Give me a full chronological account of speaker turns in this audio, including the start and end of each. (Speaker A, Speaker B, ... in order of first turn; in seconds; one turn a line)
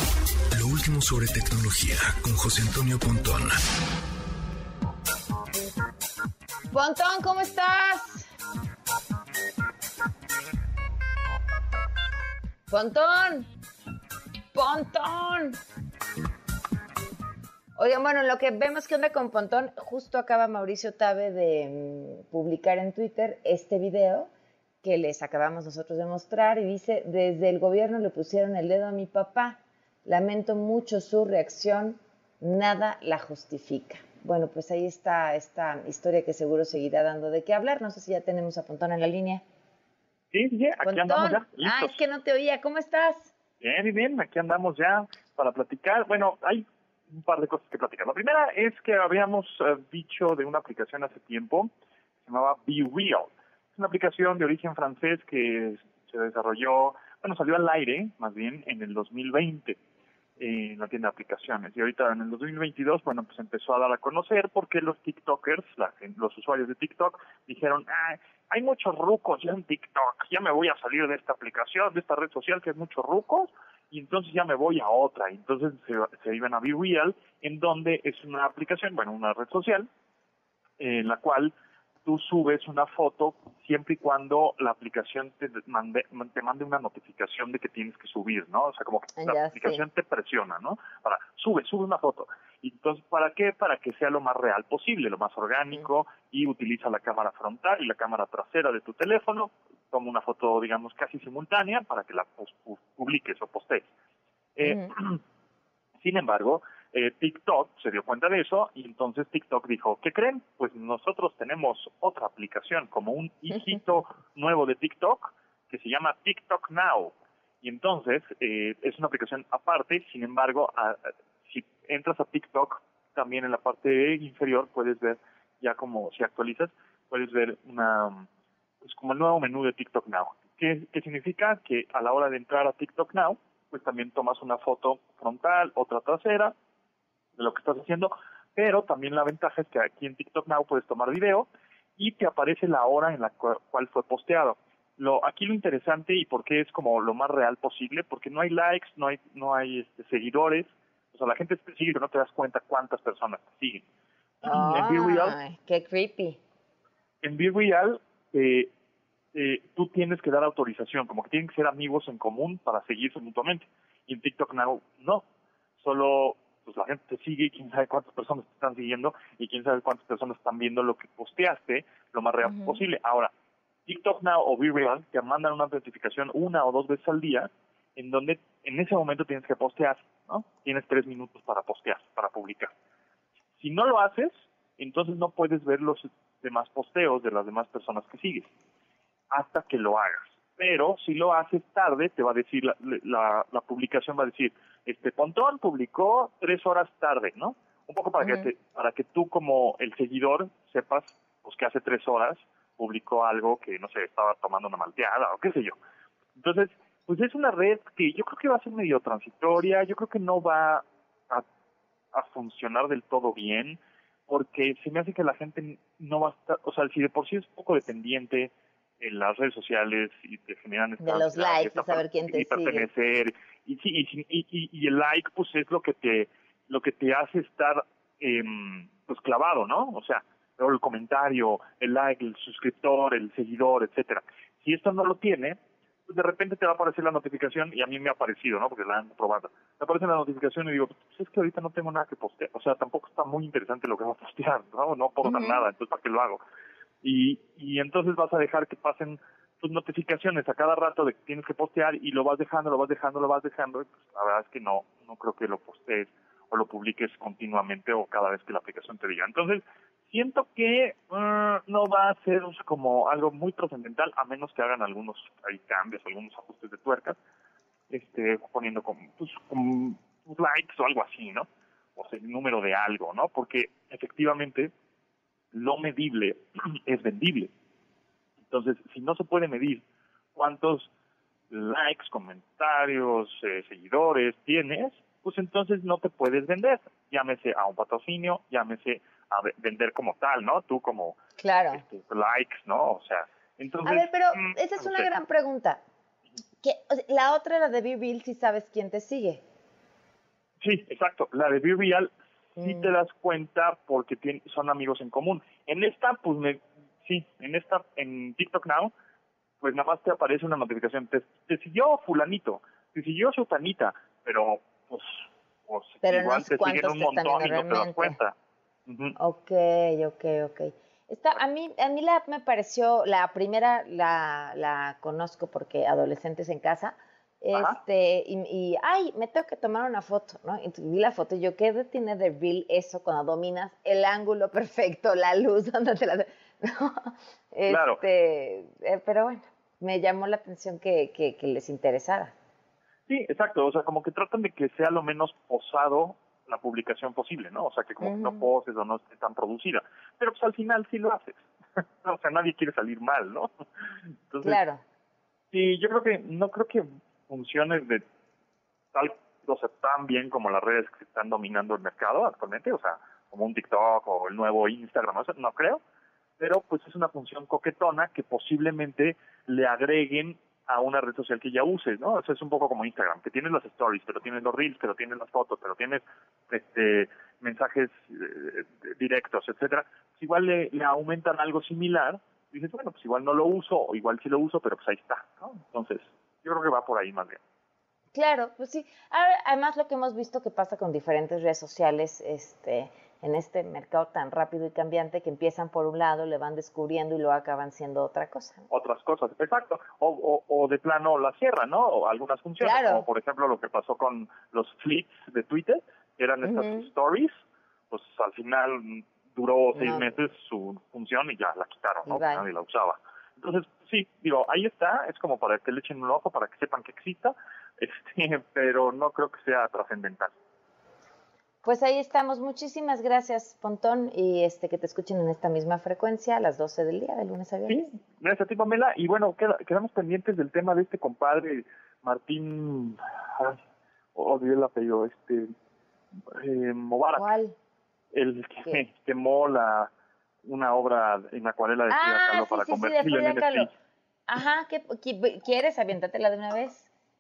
Speaker A: 0.5-3.6
Speaker B: 6.7-8.3
Speaker B: 12.7-13.5
Speaker B: 14.5-15.6
Speaker B: 17.8-24.3
Speaker B: 24.8-39.4
Speaker C: 40.3-42.0
Speaker B: 40.8-43.3
Speaker C: 43.6-51.7
Speaker C: 52.2-59.8
Speaker C: 60.4-79.9
Speaker C: 80.8-81.5
Speaker C: 82.0-103.9
Speaker B: 89.2-89.8
Speaker C: 104.6-105.2
Speaker B: 104.6-104.9
Speaker C: 106.0-128.3
Speaker C: 128.8-136.5
Speaker C: 137.4-153.8
Speaker C: 154.4-155.4
Speaker B: 154.4-156.4
Speaker C: 157.2-158.7
Speaker C: 159.3-165.2
Speaker C: 165.8-173.3
Speaker C: 173.9-182.7
Speaker C: 183.6-188.5
Speaker C: 189.3-205.8
Speaker B: 198.2-198.5
Speaker C: 206.4-211.4
Speaker C: 212.1-246.4
Speaker B: 221.0-222.9
Speaker B: 245.2-245.7
Speaker C: 247.0-267.2
Speaker C: 267.9-274.7
Speaker C: 275.5-277.5
Speaker C: 278.4-279.8
Speaker C: 280.4-280.9
Speaker C: 281.5-291.2
Speaker B: 291.4-291.8
Speaker C: 291.7-295.1
Speaker B: 293.9-295.8
Speaker B: 296.6-299.4
Speaker C: 300.6-308.9
Speaker B: 302.6-302.9
Speaker C: 309.6-318.4
Speaker B: 316.0-318.2
Speaker C: 318.9-319.2
Speaker B: 319.2-342.3
Speaker C: 337.7-338.0
Speaker C: 343.1-353.5
Speaker B: 348.0-348.5
Speaker C: 354.1-354.6
Speaker B: 354.4-354.8
Speaker C: 355.5-358.0
Speaker C: 358.9-365.8
Speaker C: 366.4-387.4
Speaker B: 388.1-398.6
Speaker C: 398.7-407.4
Speaker B: 402.6-403.1
Speaker B: 406.4-406.9
Speaker C: 407.9-420.3
Speaker B: 409.8-410.1
Speaker B: 412.1-412.5
Speaker B: 421.6-427.9
Speaker C: 427.7-433.6
Speaker C: 434.1-435.5
Speaker C: 436.3-437.3
Speaker B: 437.2-437.6
Speaker C: 438.1-439.9
Speaker C: 440.4-443.7
Speaker B: 441.9-443.7
Speaker B: 444.3-446.9